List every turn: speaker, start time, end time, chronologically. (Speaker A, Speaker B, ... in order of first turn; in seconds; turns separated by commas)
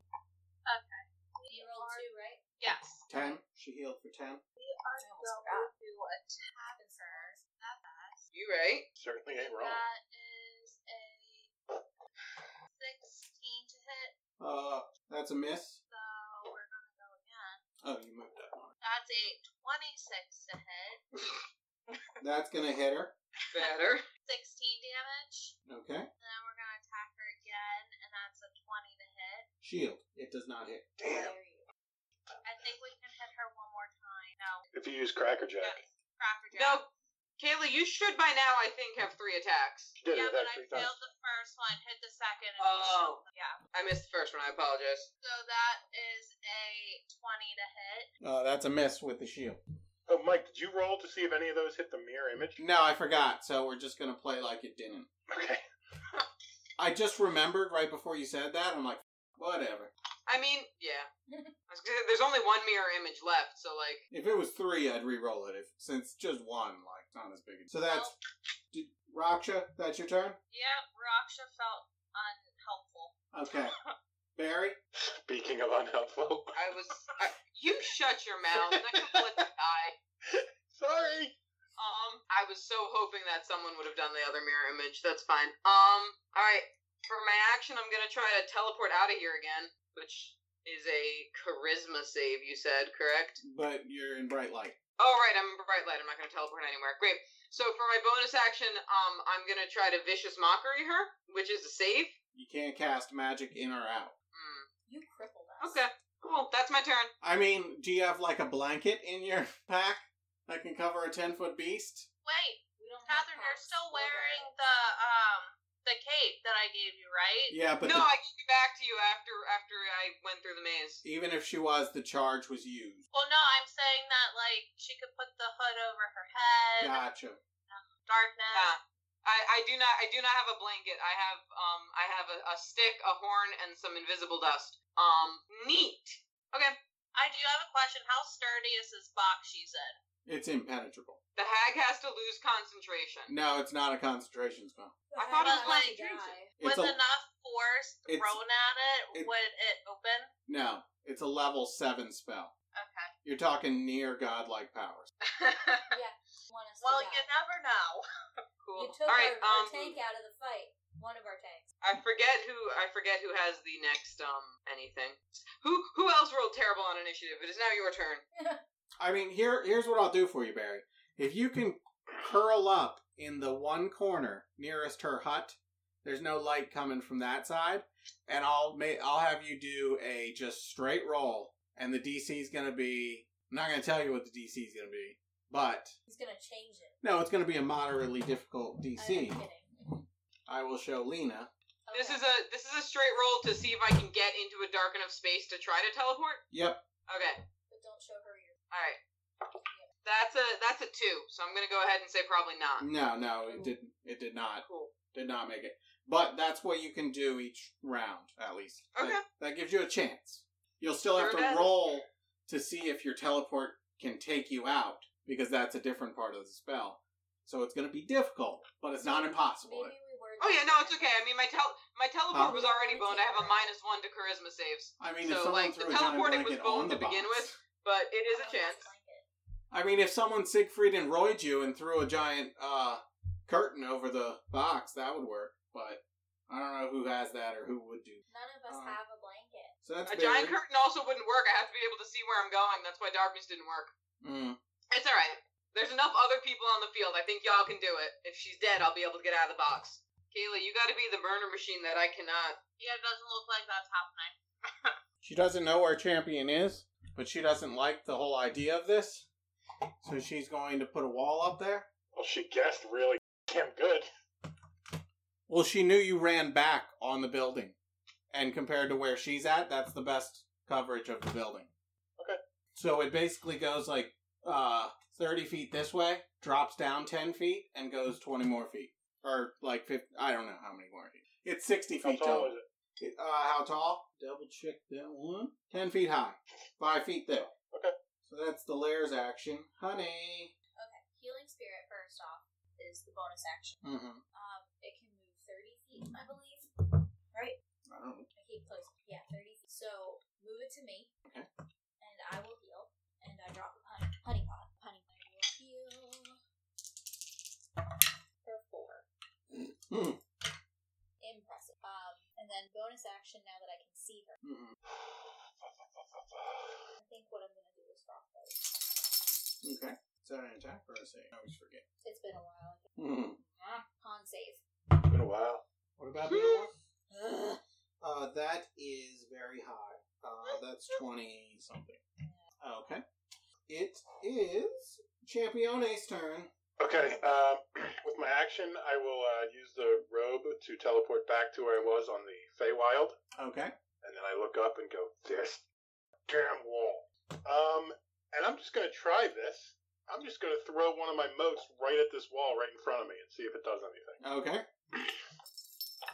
Speaker A: 0.7-3.4, Speaker B: 1.5-2.4, Speaker C: 3.1-4.4, Speaker A: 4.6-8.2, Speaker B: 5.0-5.7, Speaker B: 6.8-7.4, Speaker D: 8.3-8.9, Speaker E: 9.0-9.8, Speaker A: 9.4-11.5, Speaker A: 12.7-14.1, Speaker C: 14.4-15.8, Speaker A: 15.9-17.6, Speaker C: 17.8-18.7, Speaker A: 18.8-21.2, Speaker C: 22.2-23.1, Speaker D: 23.5-24.1, Speaker A: 24.2-25.6, Speaker C: 25.6-26.1, Speaker A: 26.2-29.5, Speaker C: 29.6-31.3, Speaker B: 31.0-31.6, Speaker A: 32.4-34.7, Speaker E: 34.7-35.8, Speaker A: 35.6-36.9, Speaker D: 36.5-36.9, Speaker D: 37.4-40.0, Speaker E: 40.0-41.0, Speaker A: 40.1-43.6, Speaker D: 42.6-45.1, Speaker A: 45.2-48.1, Speaker C: 48.2-49.6, Speaker E: 50.1-52.6, Speaker C: 52.6-55.1, Speaker E: 55.3-55.6, Speaker C: 56.8-59.9, Speaker D: 60.3-61.1, Speaker B: 61.3-61.5, Speaker D: 61.7-64.0, Speaker C: 64.1-68.1, Speaker A: 67.8-68.1, Speaker C: 68.7-70.4, Speaker A: 70.5-73.9, Speaker C: 73.3-73.8, Speaker C: 74.4-74.8, Speaker E: 75.0-76.6, Speaker D: 76.6-80.0, Speaker E: 78.5-79.3, Speaker E: 80.2-81.3, Speaker D: 81.8-93.4, Speaker C: 93.4-94.8, Speaker D: 95.0-102.2, Speaker C: 102.3-104.1, Speaker D: 104.3-104.7, Speaker B: 104.9-105.8, Speaker D: 105.6-107.1, Speaker C: 107.2-112.1, Speaker A: 112.2-117.6, Speaker B: 112.8-114.5, Speaker C: 117.5-118.1, Speaker D: 117.8-121.0, Speaker C: 121.0-123.0, Speaker A: 123.1-127.1, Speaker C: 126.8-127.4, Speaker A: 127.7-128.7, Speaker D: 128.5-136.8, Speaker A: 137.1-140.0, Speaker C: 140.2-141.2, Speaker D: 141.4-143.3, Speaker C: 143.3-145.0, Speaker B: 145.1-146.5, Speaker D: 145.2-146.3, Speaker A: 145.4-150.3, Speaker C: 146.6-147.0, Speaker C: 148.1-148.4, Speaker C: 150.5-152.5, Speaker A: 152.7-153.1, Speaker C: 153.2-155.1, Speaker A: 155.2-155.9, Speaker B: 155.9-157.2, Speaker A: 156.8-158.0, Speaker D: 158.6-160.0, Speaker B: 158.8-161.6, Speaker D: 161.8-168.2, Speaker B: 168.3-168.6, Speaker C: 169.0-185.9, Speaker B: 186.1-186.9, Speaker C: 187.0-189.4, Speaker B: 188.9-190.0, Speaker C: 190.5-191.5, Speaker B: 191.9-192.2, Speaker D: 191.9-196.4, Speaker C: 196.5-196.8, Speaker D: 197.1-197.4, Speaker B: 197.7-198.6, Speaker D: 198.7-199.0, Speaker D: 200.0-202.9, Speaker C: 202.8-219.9, Speaker B: 203.5-203.8, Speaker D: 204.6-204.9, Speaker D: 208.9-209.2, Speaker D: 211.1-211.9, Speaker B: 219.0-221.2, Speaker D: 220.4-228.9, Speaker C: 222.3-222.6, Speaker B: 222.4-223.7, Speaker C: 225.0-227.5, Speaker B: 228.3-229.2, Speaker C: 229.7-239.0, Speaker B: 238.3-239.7, Speaker C: 239.8-240.6, Speaker D: 240.1-243.9, Speaker C: 244.2-244.6, Speaker D: 244.9-252.6, Speaker A: 252.8-254.9, Speaker C: 255.2-259.3, Speaker C: 260.0-261.9, Speaker E: 262.1-264.1, Speaker C: 265.5-267.8, Speaker C: 268.3-271.7, Speaker C: 272.8-287.5, Speaker E: 282.0-282.6, Speaker E: 287.5-287.9, Speaker C: 288.2-290.6, Speaker B: 290.8-296.7, Speaker C: 293.8-294.2, Speaker C: 297.9-298.3, Speaker B: 298.3-301.1, Speaker B: 302.0-306.4, Speaker B: 308.4-309.1, Speaker C: 309.9-310.2, Speaker B: 311.2-314.4, Speaker C: 314.4-314.8, Speaker E: 314.9-316.9, Speaker B: 317.0-318.8, Speaker C: 319.6-321.9, Speaker B: 322.0-322.9, Speaker C: 322.9-323.4, Speaker B: 324.0-324.6, Speaker E: 324.9-325.6, Speaker C: 326.0-332.0, Speaker D: 326.2-326.7, Speaker C: 332.6-333.0, Speaker C: 333.7-336.5, Speaker E: 336.8-343.1, Speaker C: 343.4-343.7, Speaker E: 344.0-345.6, Speaker E: 346.3-354.2, Speaker C: 354.2-355.1